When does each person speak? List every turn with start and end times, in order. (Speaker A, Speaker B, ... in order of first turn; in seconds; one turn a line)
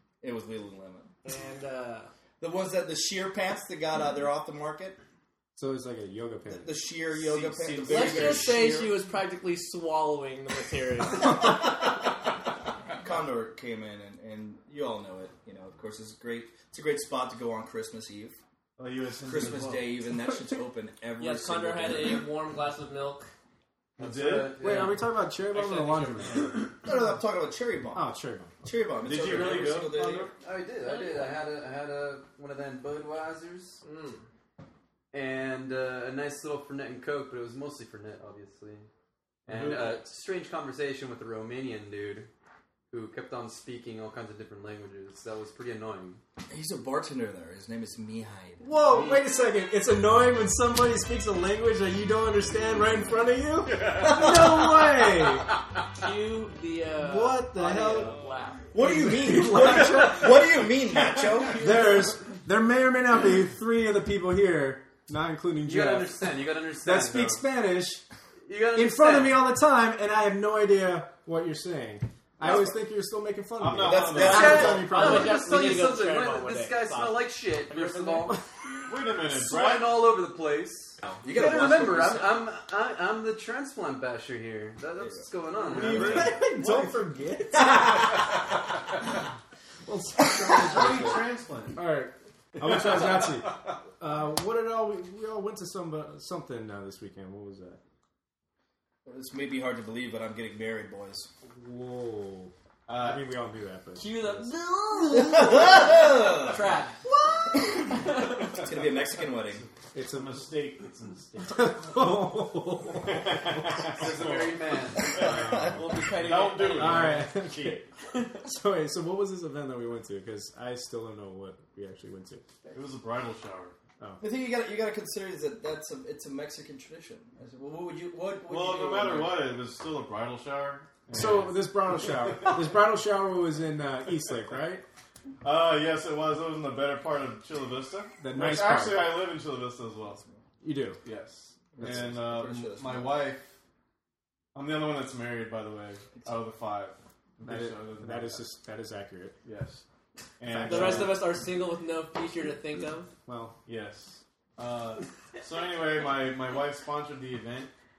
Speaker A: 0.2-1.1
Speaker B: 1.2-2.1
Speaker A: 2.4-5.0
Speaker C: 5.6-6.9
Speaker A: 6.5-8.9
Speaker D: 7.1-8.8
Speaker B: 7.8-11.6
Speaker A: 11.2-12.1
Speaker A: 13.0-18.4
Speaker D: 18.8-20.0
Speaker A: 19.2-22.2
Speaker B: 21.2-23.3
Speaker D: 24.0-24.6
Speaker E: 24.0-25.0
Speaker C: 24.6-26.7
Speaker B: 24.6-25.0
Speaker B: 25.5-26.8
Speaker A: 26.8-28.1
Speaker C: 27.9-28.6
Speaker A: 28.6-30.3
Speaker D: 29.0-30.3
Speaker E: 29.2-33.8
Speaker B: 30.8-31.4
Speaker B: 33.8-34.2
Speaker E: 35.1-38.9
Speaker E: 39.5-42.3
Speaker D: 39.5-40.0
Speaker E: 42.9-46.2
Speaker A: 46.5-48.7
Speaker C: 48.6-55.5
Speaker D: 53.6-54.4
Speaker A: 54.0-54.8
Speaker B: 56.0-58.6
Speaker C: 57.0-58.1
Speaker A: 58.7-61.7
Speaker C: 58.8-60.4
Speaker C: 61.5-66.2
Speaker E: 65.6-67.4
Speaker C: 66.8-68.0
Speaker E: 68.5-69.4
Speaker C: 68.7-75.5
Speaker A: 72.4-72.8
Speaker D: 73.6-74.7
Speaker A: 73.8-75.3
Speaker B: 74.2-78.3
Speaker E: 74.4-78.4
Speaker D: 78.8-80.1
Speaker E: 79.2-86.3
Speaker A: 81.2-82.4
Speaker A: 85.0-86.2
Speaker D: 85.7-87.0
Speaker C: 85.7-88.4
Speaker C: 89.8-97.8
Speaker D: 90.5-91.8
Speaker D: 92.6-93.5
Speaker A: 99.0-101.3
Speaker C: 101.5-104.5
Speaker D: 102.9-103.3
Speaker B: 104.0-107.0
Speaker A: 105.1-106.7
Speaker A: 107.5-109.6
Speaker B: 107.5-108.6
Speaker D: 109.3-111.9
Speaker C: 109.9-110.4
Speaker C: 111.5-113.9
Speaker D: 113.0-117.9
Speaker E: 113.9-115.3
Speaker A: 115.2-115.7
Speaker C: 115.2-115.8
Speaker B: 115.2-117.2
Speaker C: 116.7-117.8
Speaker B: 118.1-118.4
Speaker C: 118.4-122.4
Speaker D: 122.7-123.7
Speaker A: 124.2-129.5
Speaker D: 128.4-132.7
Speaker C: 131.1-134.8
Speaker D: 135.4-140.3
Speaker C: 138.2-139.2
Speaker C: 140.6-141.0
Speaker D: 141.0-143.5
Speaker A: 141.7-143.3
Speaker D: 144.5-148.4
Speaker C: 147.4-149.3
Speaker D: 149.4-149.8
Speaker D: 150.4-151.3
Speaker C: 150.5-151.2
Speaker B: 150.6-153.1
Speaker C: 153.3-153.6
Speaker D: 153.6-157.7